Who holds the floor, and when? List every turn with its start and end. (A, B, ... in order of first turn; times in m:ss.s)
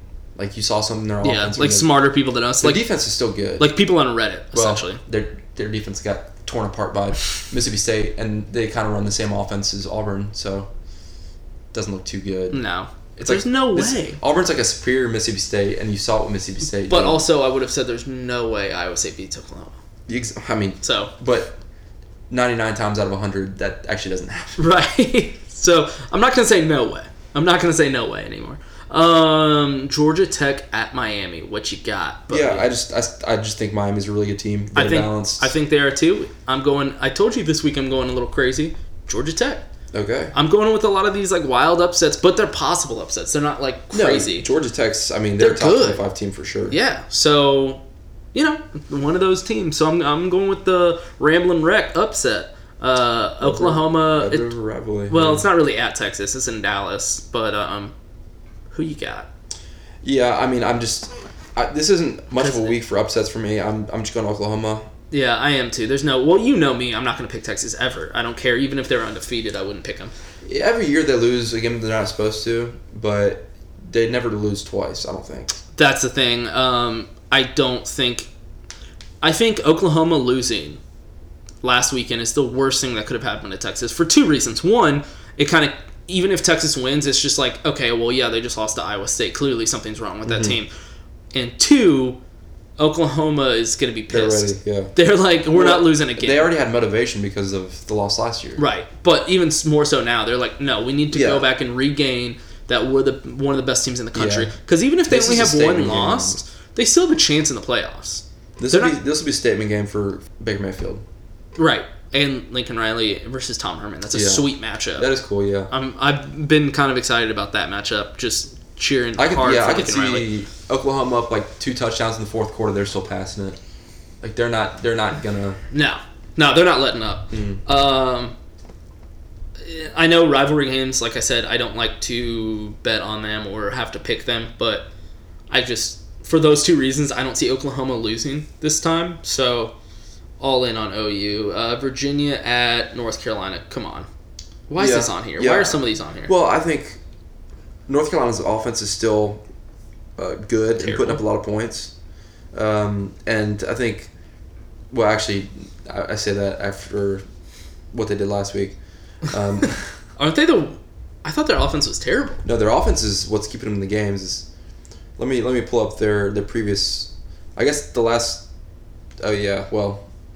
0:00.4-0:01.9 A
0:01.2-0:02.8 B
0:02.6-0:03.7 A
0:03.6-0:05.0 B
0:04.5-0:10.7 A
0:11.7-0:12.6 A
0:12.5-0:14.2 B
0:13.2-0:17.3 A
0:16.8-0:19.8 B
0:20.1-0:21.6 A
0:20.8-0:21.1 B
0:22.3-0:24.6 A
0:24.6-0:32.7 B
0:32.3-0:35.5 A
0:34.8-0:39.6 B
0:39.9-0:40.3 A
0:40.3-0:44.5 B
0:43.9-0:46.8 A
0:45.4-0:46.0 B
0:46.7-0:47.8 B
0:48.3-0:54.6 B
0:53.4-0:55.5 A
0:55.1-0:57.9 B
0:58.7-0:59.3 B
1:00.0-1:04.9 A
1:02.3-1:02.8 B
1:05.1-1:10.1 B
1:10.4-1:15.6 A
1:15.8-1:18.3 B
1:19.2-1:20.8 B
1:21.6-1:30.7 B
1:30.3-1:30.6 A
1:31.3-1:32.2 B
1:32.8-1:36.5 B
1:34.1-1:34.9 A
1:35.5-1:38.6 A
1:38.6-1:49.0 B
1:41.1-1:41.5 A
1:44.1-1:44.6 A
1:45.1-1:46.4 A
1:48.6-1:51.0 A
1:51.6-1:55.1 B
1:54.1-1:55.7 A
1:55.7-2:00.3 B
1:59.2-2:03.6 A
2:04.2-2:05.6 A
2:05.7-2:08.4 B
2:07.3-2:07.6 A
2:09.6-2:14.9 B
2:15.5-2:19.7 B
2:20.4-2:24.1 B
2:24.7-2:26.3 B
2:24.8-2:27.0 A
2:27.9-2:29.4 A
2:30.2-2:31.9 A
2:30.8-2:31.2 B
2:32.5-2:34.1 A
2:34.9-2:37.2 A
2:37.9-2:39.8 A
2:40.2-2:42.4 B
2:42.4-2:44.5 A
2:45.2-2:48.5 A
2:49.2-2:50.1 A